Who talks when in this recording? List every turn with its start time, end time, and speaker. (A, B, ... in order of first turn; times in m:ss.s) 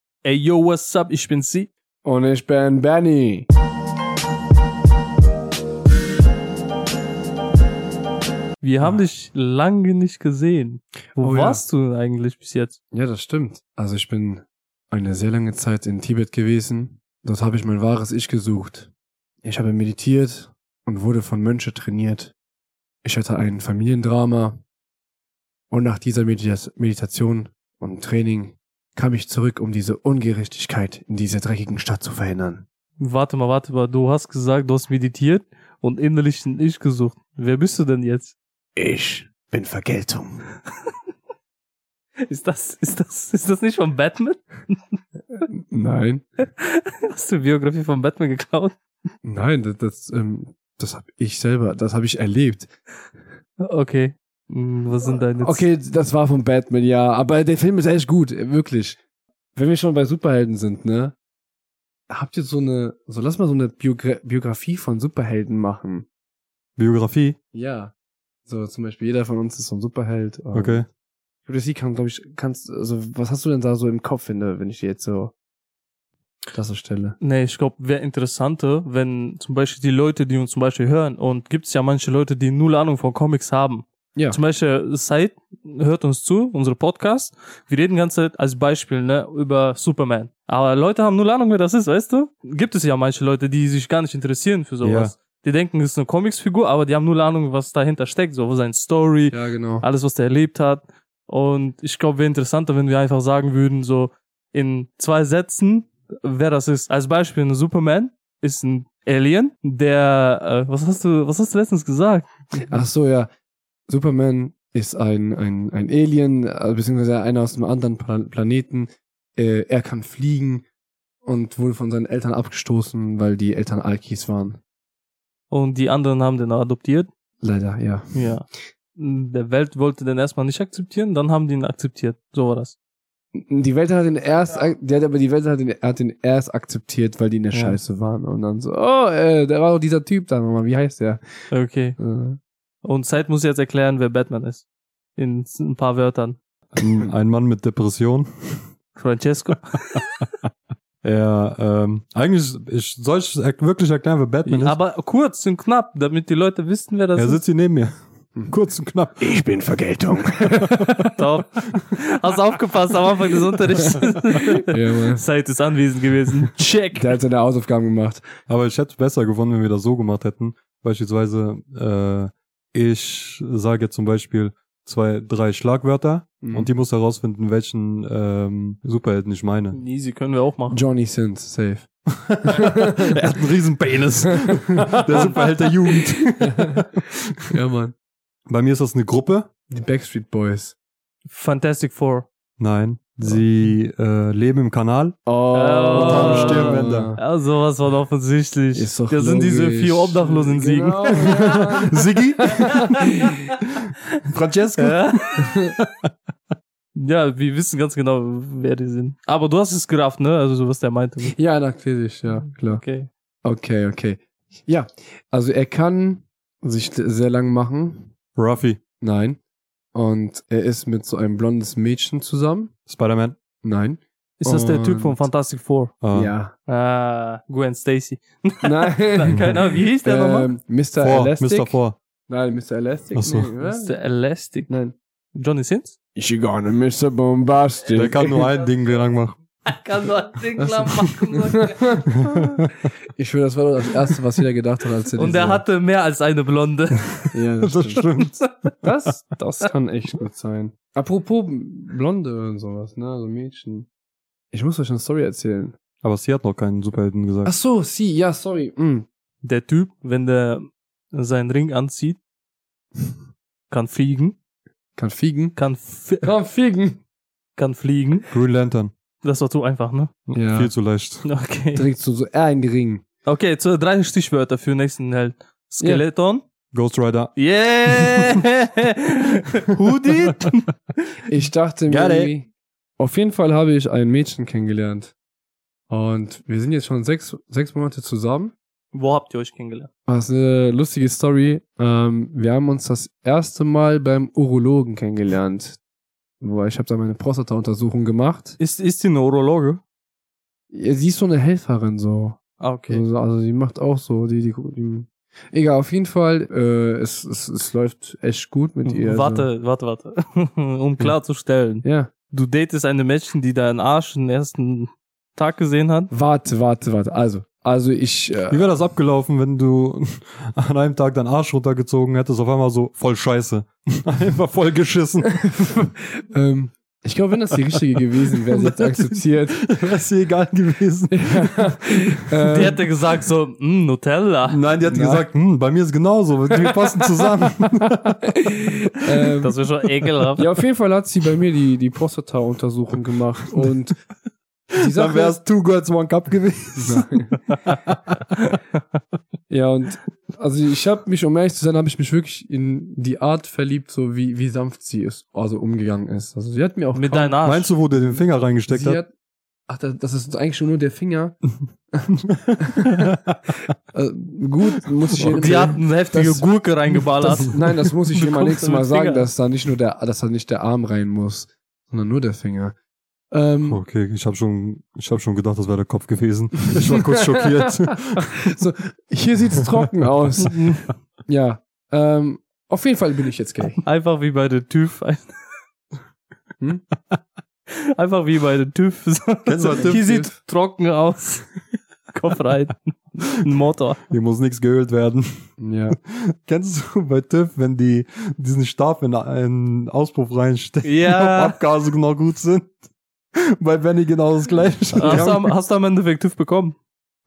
0:00.2-0:01.7 A
0:02.0-0:03.5 B
0:08.6-0:12.8 A
0:11.2-0:11.6 B
0:12.9-0:18.9 B
0:19.4-0:22.3 B
0:23.0-0:24.6 B
0:25.7-0:32.6 B
0:33.0-0:38.3 A
0:38.8-0:40.4 B
0:42.3-0:45.0 A
0:45.5-0:46.2 B
0:46.6-0:48.8 A
0:49.2-0:52.7 B
0:53.6-0:55.7 A
0:55.4-0:59.0 B
0:59.5-1:01.1 B
1:02.1-1:06.1 B
1:06.8-1:07.4 C
1:07.5-1:07.9 B
1:08.4-1:10.8 B
1:10.5-1:10.8 C
1:11.4-1:15.3 B
1:16.5-1:17.2 B
1:17.2-1:52.3 A
1:34.8-1:35.1 C
1:39.3-1:39.8 B
1:52.7-1:53.3 B
1:53.9-2:00.6 B
2:01.2-2:04.6 B
2:05.5-2:07.1 A
2:07.4-2:08.1 B
2:08.1-2:12.7 A
2:13.3-2:21.2 B
2:21.5-2:22.0 A
2:22.0-2:22.4 B
2:22.8-2:24.6 A
2:25.2-2:26.4 A
2:26.8-2:28.6 C
2:29.0-2:30.0 A
2:31.0-2:34.8 C
2:34.4-2:37.4 A
2:37.1-2:39.4 C
2:39.2-2:41.0 B
2:40.5-2:41.1 C
2:41.1-2:47.1 A
2:44.7-2:45.2 B
2:46.9-2:48.2 B
2:48.5-2:59.8 C
2:56.4-2:56.7 B
2:59.7-3:00.8 A
3:00.7-3:01.9 B
3:02.1-3:07.4 C
3:02.4-3:03.2 B
3:04.8-3:05.3 B
3:05.1-3:05.5 A
3:06.2-3:06.8 B
3:07.5-3:07.9 B
3:08.5-3:09.5 C
3:09.7-3:10.7 B
3:11.2-3:12.3 A
3:12.6-3:15.2 C
3:15.2-3:17.2 B
3:15.5-3:21.6 A
3:16.0-3:17.1 C
3:18.7-3:23.3 B
3:21.2-3:26.1 C
3:24.8-3:25.4 A
3:25.4-3:25.7 B
3:26.9-3:31.4 A
3:31.3-3:32.8 B
3:32.7-3:33.1 A
3:33.4-3:38.1 B
3:38.4-3:38.8 C
3:39.0-3:39.4 B
3:39.9-3:42.7 B
3:42.9-3:43.4 C
3:43.6-3:45.2 B
3:44.4-3:46.0 A
3:46.0-3:46.3 C
3:46.1-3:46.5 B
3:46.7-3:50.5 A
3:48.6-3:54.0 B
3:51.0-3:52.0 C
3:53.1-3:53.5 C
3:53.6-3:54.7 A
3:54.7-3:54.9 B
3:55.3-3:56.0 A
3:56.2-3:58.5 B
3:57.9-3:59.4 C
3:59.7-4:02.1 A
4:00.6-4:02.4 B
4:02.1-4:02.9 C
4:03.2-4:05.6 B
4:05.2-4:07.4 A
4:07.3-4:08.0 B
4:07.6-4:09.1 C
4:08.8-4:13.9 B
4:14.5-4:15.7 B
4:16.0-4:17.5 C
4:17.4-4:19.0 B
4:19.4-4:22.2 A
4:23.7-4:24.4 A
4:25.0-4:25.6 B
4:25.6-4:26.3 A
4:26.2-4:27.0 B
4:27.6-4:28.3 A
4:28.3-4:28.9 C
4:29.2-4:30.1 A
4:30.3-4:31.3 C
4:30.3-4:30.7 B
4:31.2-4:31.8 A
4:31.7-4:33.0 B
4:33.2-4:36.4 A
4:36.7-4:37.3 C
4:37.4-4:40.7 A
4:37.9-4:38.2 C
4:41.3-4:45.1 B
4:41.9-4:42.3 C
4:45.9-4:48.5 B
4:48.9-4:49.9 A
4:50.1-4:55.8 B
4:56.4-4:58.6 B
4:58.6-4:59.8 A
5:00.7-5:09.5 B
5:02.6-5:03.0 A
5:08.8-5:16.1 A
5:11.8-5:12.1 B
5:16.1-5:18.6 B
5:18.5-5:25.3 C
5:25.2-5:29.7 B
5:28.5-5:32.3 C
5:31.1-5:32.8 B
5:32.5-5:34.6 A
5:34.5-5:38.8 C
5:34.8-5:35.2 B
5:38.4-5:39.6 B
5:39.4-5:40.4 A
5:40.4-5:44.0 B
5:44.7-5:45.4 B
5:44.8-5:47.1 C
5:46.8-5:47.4 B
5:47.6-5:48.2 C
5:49.5-5:57.4 B
5:56.9-5:57.7 A
5:57.4-5:59.0 C
5:58.7-5:59.1 B
5:59.7-6:01.4 B
6:02.2-6:03.5 C
6:02.6-6:03.1 B
6:03.9-6:06.4 B
6:05.1-6:05.4 C
6:05.2-6:09.3 A
6:07.4-6:12.7 B
6:13.3-6:13.8 B
6:13.7-6:18.5 C
6:17.0-6:20.7 B
6:20.4-6:20.8 A
6:21.3-6:23.8 B
6:23.8-6:25.4 A
6:28.0-6:31.5 A
6:29.4-6:30.2 C
6:29.7-6:30.3 B
6:32.1-6:34.0 A
6:34.1-6:35.4 C
6:35.6-6:36.0 B
6:35.9-6:42.8 C
6:40.8-6:41.6 A
6:43.4-6:45.5 C
6:45.0-6:46.7 A